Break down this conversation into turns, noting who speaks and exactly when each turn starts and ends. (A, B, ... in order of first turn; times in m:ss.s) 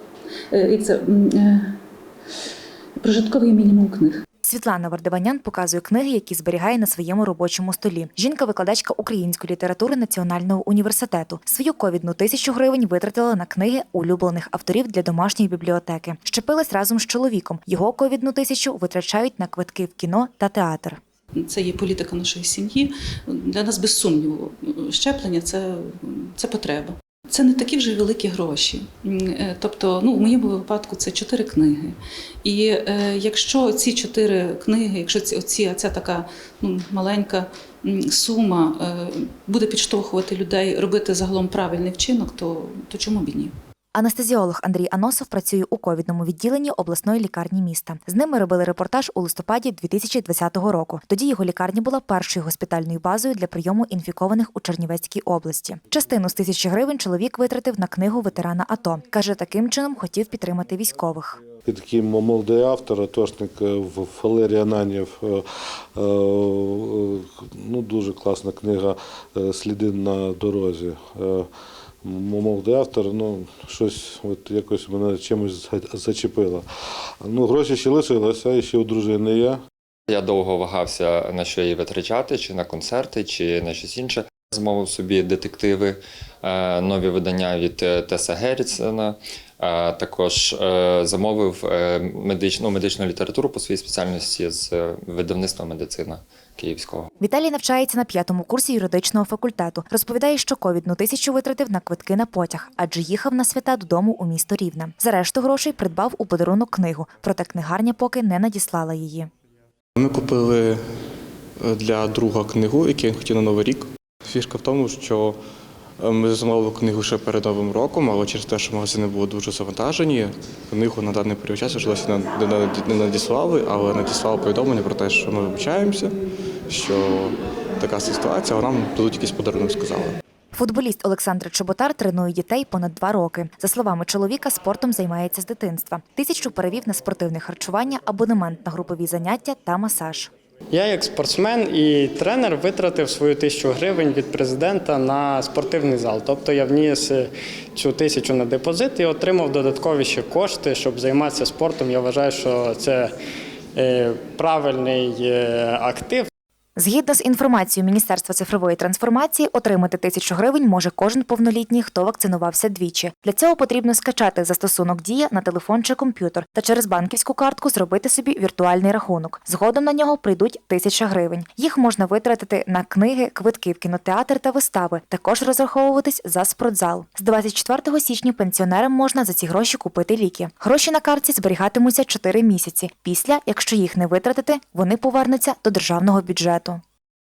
0:00.5-0:01.8 A
0:03.0-0:04.2 A
0:04.4-0:21.0 B
0:21.4-0:43.5 A
0:44.0-1:01.4 B
1:01.6-1:05.4 C
1:06.0-1:11.5 C
1:12.0-1:16.6 C
1:17.2-1:19.6 C
1:20.1-1:37.1 D
1:37.2-1:49.3 B
1:50.0-1:50.8 E
1:51.6-1:55.4 E
1:56.0-2:06.2 E
2:06.7-2:10.2 E
2:10.5-2:20.3 B
2:20.7-2:33.1 F
2:33.8-2:36.3 F
2:36.8-3:06.8 B